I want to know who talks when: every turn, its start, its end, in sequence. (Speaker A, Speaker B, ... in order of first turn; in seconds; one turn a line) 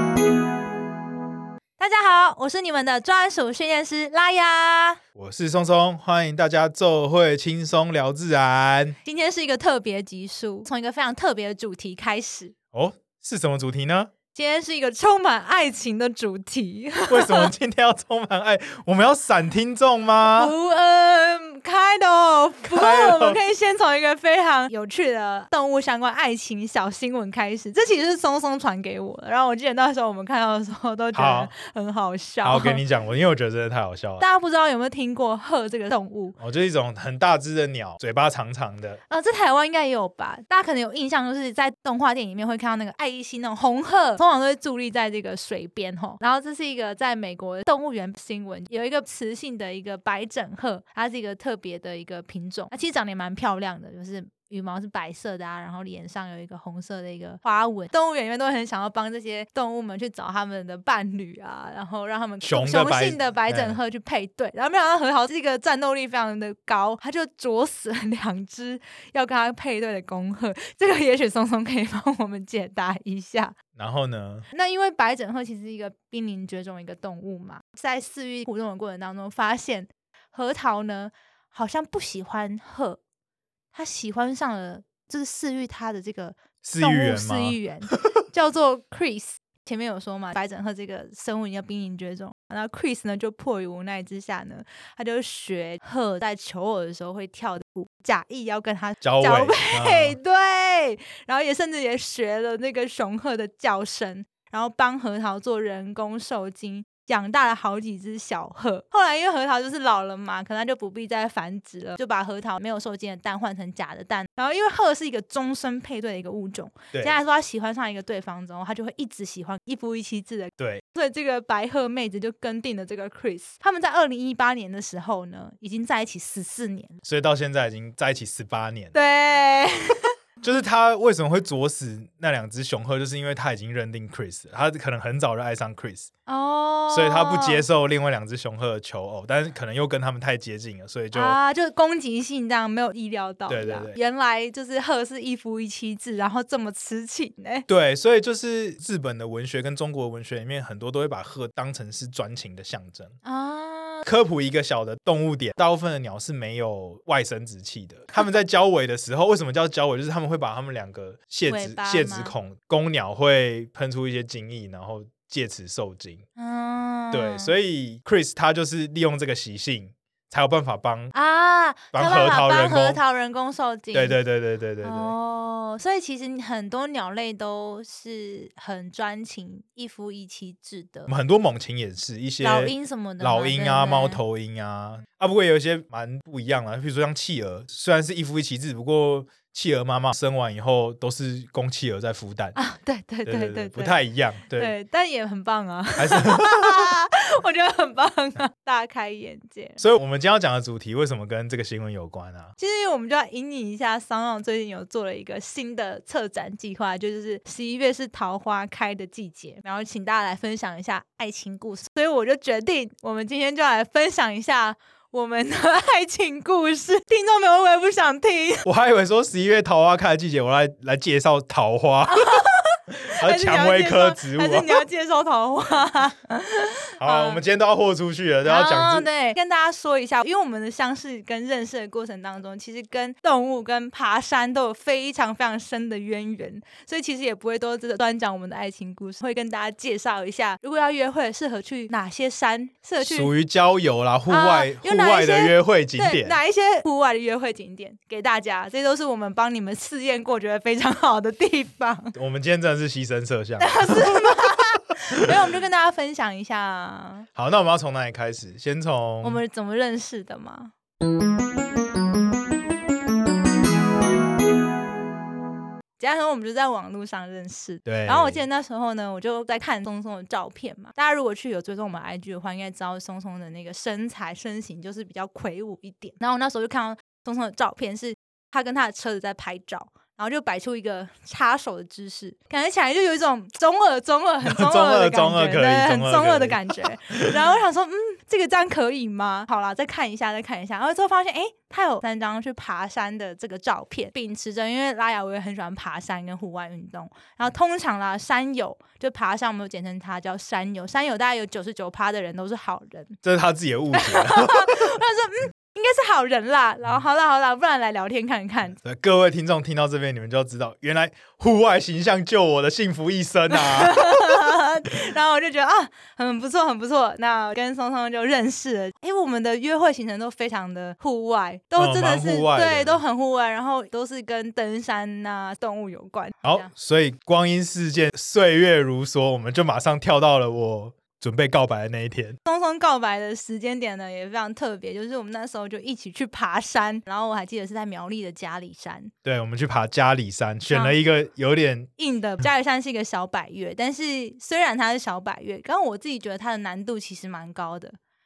Speaker A: 1.8-5.0
Speaker B: 5.1-8.9
Speaker A: 9.0-12.5
Speaker B: 12.7-14.1
Speaker A: 14.3-17.5
Speaker B: 17.1-20.5
Speaker A: 20.3-32.8
Speaker B: 22.7-23.4
Speaker B: 31.1-31.5
Speaker B: 32.4-34.2
Speaker A: 34.2-36.4
Speaker B: 36.4-39.0
Speaker A: 39.1-73.5
Speaker B: 62.4-63.8
Speaker B: 73.8-74.5
Speaker A: 74.5-83.0
Speaker A: 83.7-127.0
Speaker B: 86.6-88.0
Speaker B: 99.0-100.2
Speaker B: 116.9-117.2
Speaker B: 127.0-128.9
Speaker A: 128.9-130.1
Speaker B: 130.4-136.1
Speaker A: 136.3-137.6
Speaker B: 136.9-141.4
Speaker A: 141.1-147.7
Speaker B: 143.5-143.9
Speaker B: 147.7-153.2
Speaker A: 153.2-154.1
Speaker B: 154.0-166.2
Speaker A: 161.5-162.3
Speaker A: 166.4-167.5
Speaker B: 167.1-171.1
Speaker A: 171.1-174.2
Speaker B: 171.9-173.0
Speaker B: 173.9-175.1
Speaker A: 174.8-181.1
Speaker B: 181.1-192.6
Speaker A: 182.4-184.2
Speaker A: 192.5-194.0
Speaker B: 193.2-194.7
Speaker A: 194.6-199.8
Speaker B: 196.0-196.9
Speaker B: 199.8-202.5
Speaker A: 202.6-218.7
Speaker B: 218.6-224.8
Speaker A: 222.1-227.4
Speaker B: 227.0-229.1
Speaker A: 228.4-243.3
Speaker B: 243.0-246.4
Speaker A: 244.3-252.1
Speaker B: 252.1-254.6
Speaker A: 253.6-257.2
Speaker B: 257.3-259.4
Speaker A: 259.2-260.7
Speaker A: 266.0-303.2
Speaker B: 267.8-268.4
Speaker B: 284.4-287.4
Speaker B: 303.2-304.9
Speaker A: 303.9-308.8
Speaker B: 308.8-314.6
Speaker A: 313.5-326.7
Speaker B: 321.8-323.0
Speaker B: 326.4-332.4
Speaker A: 332.4-339.1
Speaker B: 339.2-341.9
Speaker A: 340.7-340.9
Speaker A: 342.0-348.0